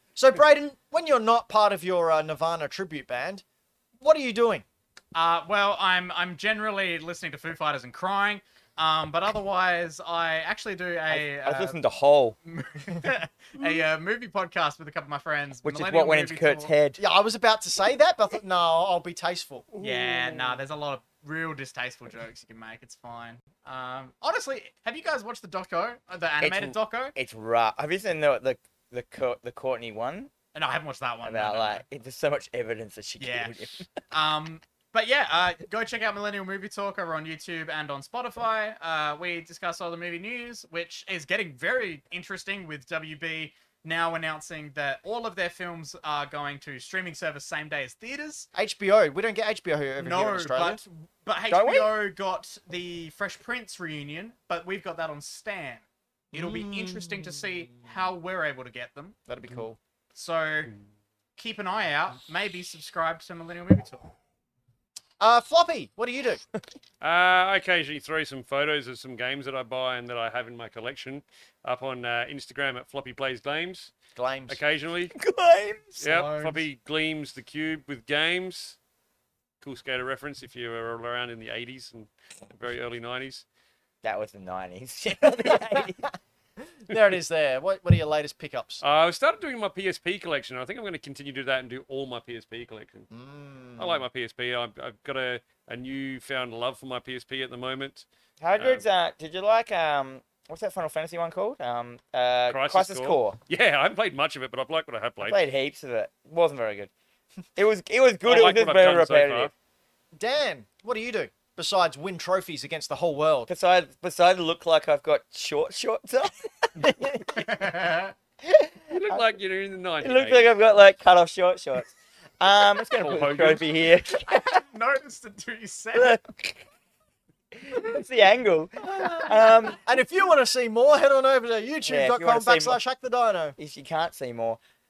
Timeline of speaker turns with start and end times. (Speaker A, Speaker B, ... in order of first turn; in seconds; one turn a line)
Speaker A: 0.2-3.4
Speaker A: 4.0-4.6
Speaker B: 5.1-11.8
Speaker C: 11.1-12.4
Speaker B: 12.4-16.7
Speaker C: 15.6-17.0
Speaker A: 17.0-19.8
Speaker B: 19.8-27.1
Speaker C: 26.4-30.3
Speaker B: 30.5-31.8
Speaker C: 31.2-33.9
Speaker B: 33.2-48.5
Speaker A: 48.5-50.8
Speaker B: 50.0-59.2
Speaker C: 51.5-51.9
Speaker A: 56.3-57.4
Speaker A: 59.3-59.8
Speaker B: 60.1-60.7
Speaker B: 61.4-64.1
Speaker A: 65.2-66.4
Speaker D: 67.0-73.9
Speaker A: 74.2-74.6
Speaker D: 74.5-75.2
Speaker C: 75.1-76.0
Speaker B: 76.0-76.6
Speaker D: 76.0-78.8
Speaker D: 79.6-83.5
Speaker C: 84.0-86.0
Speaker A: 86.8-88.8
Speaker D: 88.8-93.1
Speaker A: 93.1-94.0
Speaker D: 93.8-98.1
Speaker C: 98.4-103.4
Speaker D: 98.6-98.8
Speaker D: 102.5-105.4
Speaker C: 105.2-106.9
Speaker C: 107.6-109.5
Speaker D: 108.2-109.5
Speaker A: 110.1-113.5
Speaker C: 113.5-117.5
Speaker B: 117.3-118.1
Speaker C: 118.4-119.2
Speaker D: 118.9-120.5
Speaker C: 120.0-124.6
Speaker D: 122.9-123.6
Speaker B: 124.1-126.2
Speaker C: 126.0-126.6
Speaker C: 127.5-129.8
Speaker A: 128.8-133.6
Speaker C: 131.8-132.8
Speaker C: 133.6-134.6